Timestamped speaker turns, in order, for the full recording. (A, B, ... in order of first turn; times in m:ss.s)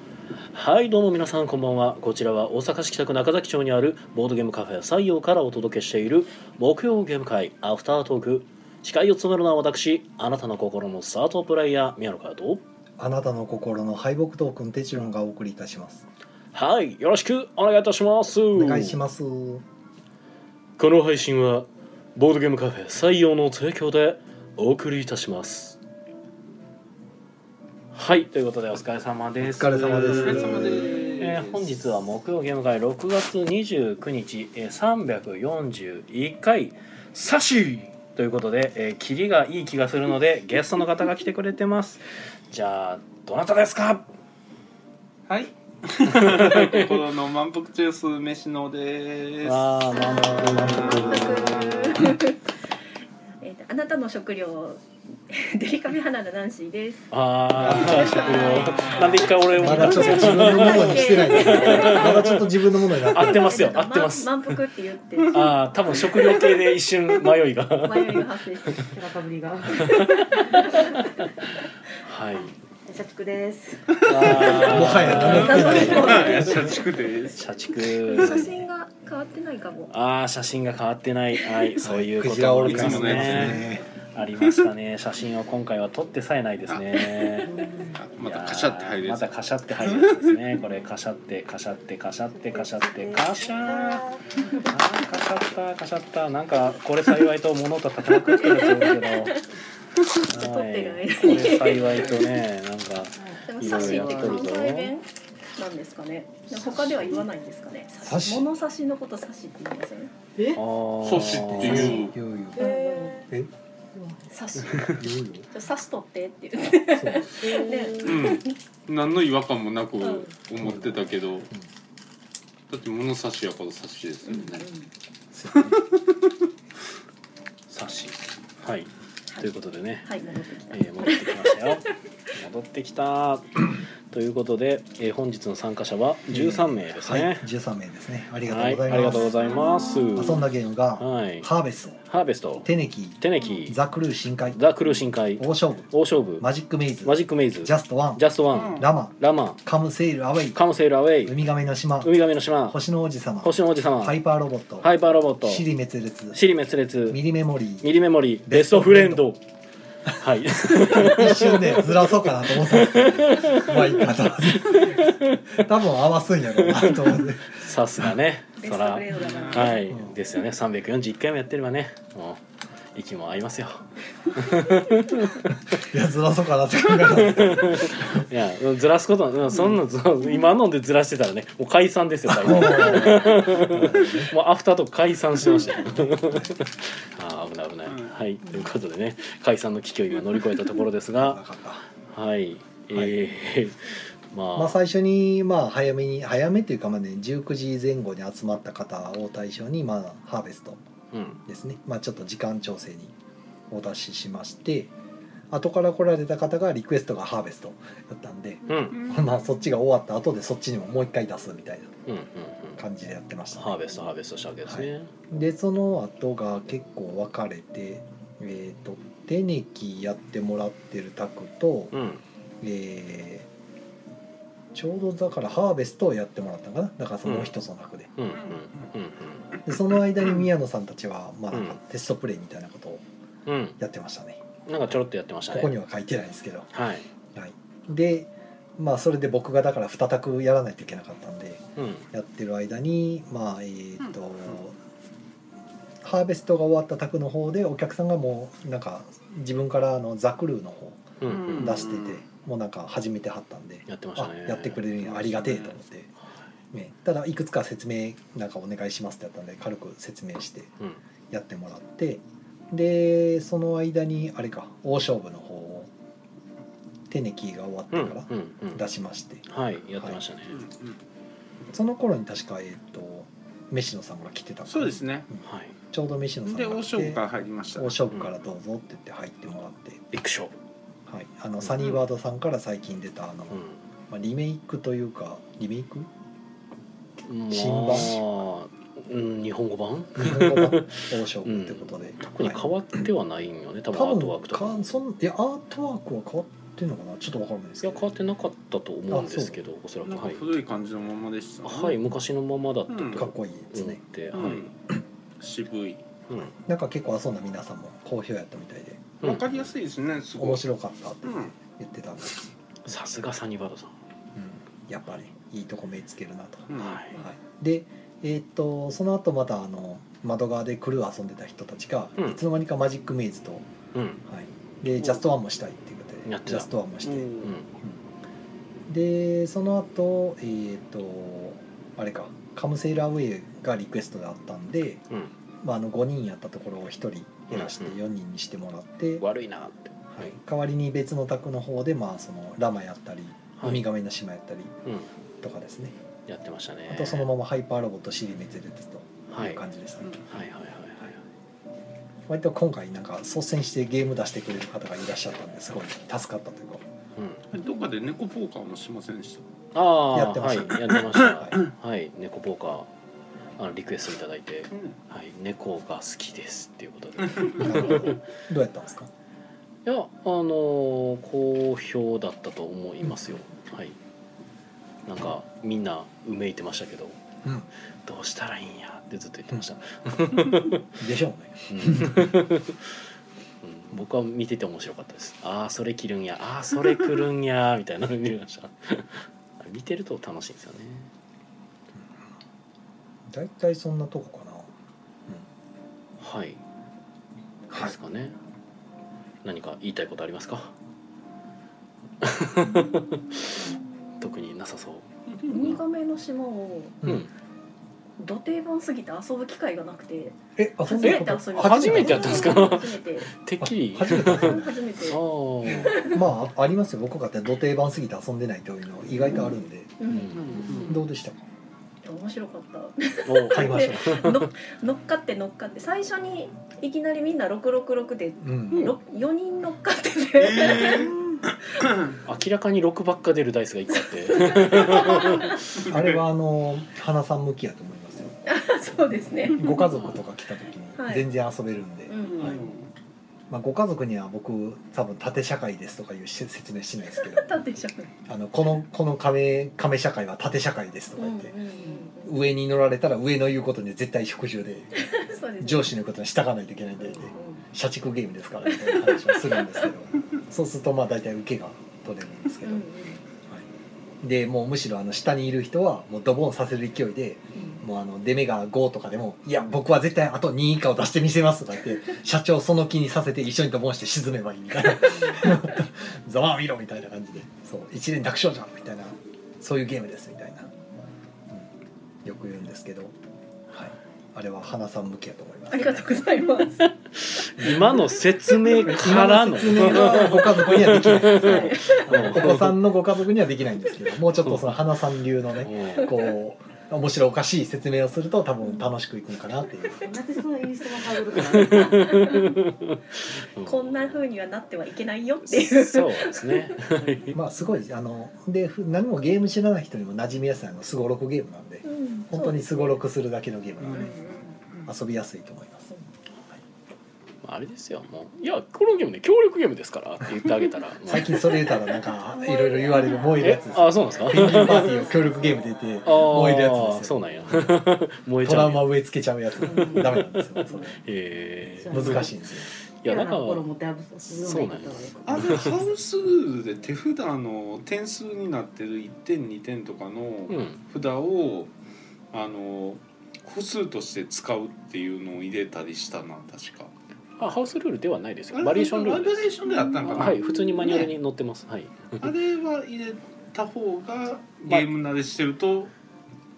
0:00.4-0:12.6 A
0:13.0-0:16.0 B
0:16.5-0:19.0 A
0:18.5-0:19.6 B
0:20.8-0:25.8 A
0:27.9-0:44.1 A
0:29.4-0:31.0 B
0:29.9-0:31.8 C
0:45.3-0:50.0 C
0:46.1-0:47.0 A
0:49.4-0:52.0 A
0:49.9-0:52.4 D
0:50.0-0:52.1 B
0:50.6-0:51.1 C
0:53.4-1:02.2 D
0:57.1-1:04.6 A
0:57.6-0:58.0 B
0:57.6-0:59.3 C
0:59.6-1:03.8 B
1:03.2-1:06.1 D
1:05.3-1:08.3 A
1:06.1-1:06.6 C
1:07.8-1:08.9 D
1:08.9-1:11.1 E
1:09.8-1:10.6 A
1:09.9-1:10.9 D
1:12.0-1:12.5 A
1:12.4-1:14.7 E
1:14.0-1:17.4 C
1:14.0-1:18.7 A
1:14.6-1:16.1 B
1:15.1-1:16.8 D
1:18.0-1:18.5 C
1:18.1-1:19.9 D
1:19.9-1:27.6 A
1:21.8-1:23.8 B
1:22.6-1:23.8 C
1:24.4-1:24.7 C
1:26.7-1:30.4 C
1:27.5-1:28.0 E
1:28.2-1:34.0 A
1:32.4-1:34.7 E
1:34.6-1:39.4 A
1:38.4-1:39.3 D
1:40.0-1:42.4 D
1:40.2-1:44.9 A
1:43.2-1:44.5 E
1:43.5-1:50.1 D
1:48.0-1:48.5 B
1:50.4-1:50.6 E
1:50.5-1:52.0 A
1:51.0-1:52.2 C
1:51.3-1:52.6 B
1:52.5-1:53.3 E
1:52.6-1:53.2 D
1:53.9-1:54.3 E
1:54.3-1:58.6 D
1:54.9-1:55.5 B
1:56.9-1:57.4 B
1:57.2-1:58.4 E
1:58.0-2:01.5 C
2:00.0-2:00.3 D
2:02.7-2:04.7 C
2:04.3-2:04.6 D
2:05.3-2:05.8 B
2:05.5-2:06.2 C
2:07.7-2:10.1 A
2:10.0-2:11.9 D
2:10.3-2:10.6 E
2:10.7-2:17.5 A
2:16.3-2:19.4 B
2:18.4-2:20.5 A
2:18.9-2:20.4 D
2:20.2-2:22.0 B
2:21.0-2:21.5 A
2:22.1-2:23.8 A
2:22.6-2:24.6 B
2:24.5-2:26.5 A
2:25.4-2:30.6 B
2:27.0-2:29.6 A
2:28.5-2:28.9 C
2:30.5-2:31.4 A
2:31.2-2:32.2 B
2:32.0-2:32.8 A
2:32.7-2:34.9 B
2:33.4-2:34.2 A
2:34.8-2:35.7 A
2:35.4-2:36.4 B
2:36.3-2:37.2 A
2:37.1-2:38.0 B
2:37.8-2:39.4 A
2:38.5-2:39.3 B
2:40.2-2:45.6 A
2:40.7-2:48.1 B
2:46.6-2:52.4 A
2:48.6-2:49.8 D
2:49.2-2:49.7 C
2:49.9-2:50.2 B
2:53.0-2:55.8 A
2:55.7-2:58.3 B
2:57.0-3:11.4 A
3:02.3-3:04.3 B
3:05.4-3:06.6 B
3:07.9-3:08.2 C
3:11.2-3:11.9 B
3:12.0-3:14.8 A
3:14.6-3:20.8 B
3:21.1-3:21.4 A
3:21.5-3:23.1 B
3:23.7-3:24.9 B
3:25.5-3:32.0 B
3:28.7-3:29.0 A
3:29.0-3:29.3 C
3:32.1-3:32.8 A
3:32.8-3:34.0 B
3:33.5-3:35.2 A
3:34.6-3:41.9 B
3:41.9-3:42.2 A
3:42.6-3:43.5 B
3:44.7-3:48.1 B
3:47.2-3:47.5 A
3:48.2-3:49.6 A
3:49.7-3:53.0 B
3:51.5-3:51.8 A
3:53.5-3:53.8 A
3:53.8-3:54.4 B
3:54.7-3:55.8 A
3:55.5-3:56.7 B
3:56.7-3:57.1 A
3:57.3-4:04.8 B
4:01.8-4:02.1 A
4:06.0-4:16.1 B
4:11.2-4:11.9 A
4:11.2-4:12.2 C
4:13.9-4:14.8 A
4:15.0-4:15.8 C
4:16.7-4:20.7 B
4:21.3-4:25.9 B
4:27.1-4:29.5 B
4:27.9-4:28.9 A
4:29.5-4:30.6 A
4:30.6-4:31.0 C
4:31.7-4:35.4 B
4:34.7-4:35.3 C
4:35.4-4:35.7 A
4:35.9-4:37.2 B
4:36.4-4:38.0 C
4:37.8-4:40.0 B
4:40.1-4:40.5 A
4:41.1-4:46.1 B
4:41.6-4:42.0 A
4:43.5-4:43.8 A
4:47.2-4:54.8 A
4:47.5-4:48.2 B
4:50.2-4:52.7 B
4:53.9-4:58.1 B
4:57.8-5:00.5 A
4:59.1-4:59.6 B
5:00.0-5:02.0 C
5:01.6-5:04.7 A
5:02.9-5:03.2 C
5:03.1-5:04.0 B
5:04.3-5:04.7 C
5:05.4-5:06.2 C
5:06.3-5:06.5 A
5:06.5-5:09.7 B
5:09.2-5:10.6 C
5:10.4-5:12.4 B
5:11.2-5:11.5 C
5:12.8-5:13.9 A
5:14.4-5:23.7 B
5:16.7-5:17.0 C
5:16.8-5:17.2 A
5:23.9-5:24.2 A
5:24.3-5:28.0 B
5:26.3-5:26.7 A
5:27.0-5:27.5 C
5:27.4-5:27.7 A
5:28.9-5:35.0 B
5:35.6-5:39.2 B
5:37.5-5:38.0 A
5:39.2-5:40.3 A
5:40.1-5:44.7 B
5:43.6-5:43.9 A
5:45.4-5:46.0 B
5:46.3-5:47.3 A
5:46.9-5:50.2 B
5:49.3-5:49.6 A
5:50.3-5:51.2 A
5:52.3-5:56.8 B
5:57.2-5:57.5 A
5:57.5-5:59.5 C
5:59.7-6:02.9 A
6:00.1-6:01.6 B
6:00.9-6:01.7 C
6:03.6-6:08.2 A
6:04.7-6:05.0 C
6:07.6-6:09.1 B
6:09.8-6:14.0 A
6:15.1-6:17.2 A
6:18.0-6:21.0 A
6:21.0-6:22.3 B
6:21.7-6:23.0 A
6:23.6-6:31.1 A
6:33.3-6:34.7 B
6:36.2-6:36.6 A
6:37.7-6:38.0 B
6:37.7-6:38.4 A
6:39.4-6:40.7 A
6:42.2-6:43.4 A
6:43.6-6:43.8 E
6:43.6-6:44.2 D
6:44.2-6:45.8 A
6:45.5-6:47.0 D
6:47.0-6:47.3 B
6:47.0-6:47.3 A
6:48.2-6:53.3 D
6:50.6-6:52.7 B
6:51.0-6:56.2 A
6:53.6-6:54.8 B
6:54.1-6:56.2 D
6:55.9-7:01.4 B
7:00.0-7:00.9 D
7:00.1-7:00.8 A
7:00.3-7:01.0 C
7:02.0-7:11.1 D
7:03.3-7:04.5 A
7:03.5-7:04.2 B
7:08.4-7:09.0 B
7:10.4-7:11.1 C
7:10.8-7:11.4 E
7:11.8-7:12.1 C
7:12.2-7:15.6 A
7:14.2-7:15.6 D
7:15.8-7:16.2 C
7:15.8-7:18.3 B
7:18.5-7:19.8 D
7:19.6-7:22.6 B
7:19.9-7:20.2 A
7:21.0-7:21.3 D
7:22.1-7:22.7 D
7:22.3-7:22.9 C
7:23.5-7:27.6 B
7:27.2-7:28.1 D
7:28.3-7:31.6 B
7:31.2-7:32.3 D
7:31.8-7:32.1 E
7:32.2-7:35.0 B
7:35.0-7:35.9 D
7:35.6-7:42.9 B
7:37.1-7:37.6 D
7:38.7-7:39.9 D
7:42.6-7:43.2 D
7:44.2-8:00.7 B
7:55.1-7:55.5 E
8:02.2-8:03.2 B
8:03.8-8:06.3 B
8:05.7-8:06.9 D
8:06.8-8:12.8 A
8:07.6-8:07.9 B
8:08.7-8:20.1 B
8:11.3-8:12.3 D
8:11.4-8:11.7 E
8:14.4-8:14.8 A
8:15.6-8:16.2 A
8:20.0-8:22.4 E
8:21.5-8:24.2 A
8:21.9-8:22.5 D
8:23.6-8:26.8 D
8:25.5-8:27.4 A
8:27.0-8:27.2 E
8:27.3-8:34.1 B
8:31.8-8:33.0 D
8:33.9-8:34.1 C
8:33.9-8:34.5 D
8:34.9-8:35.9 B
8:37.4-8:41.5 A
8:41.1-8:47.9 B
8:41.7-8:43.7 D
8:43.4-8:45.0 A
8:44.3-8:45.5 D
8:46.0-8:48.9 A
8:48.4-8:51.0 B
8:49.6-8:50.9 E
8:49.8-8:52.4 A
8:51.8-8:52.4 E
8:51.9-8:52.7 B
8:53.0-8:53.6 A
8:53.0-8:55.8 E
8:54.3-8:55.8 A
8:55.3-9:01.7 C
9:00.5-9:00.8 A
9:02.3-9:06.9 C
9:07.4-9:09.5 A
9:08.5-9:11.1 C
9:10.1-9:12.3 A
9:12.2-9:15.9 C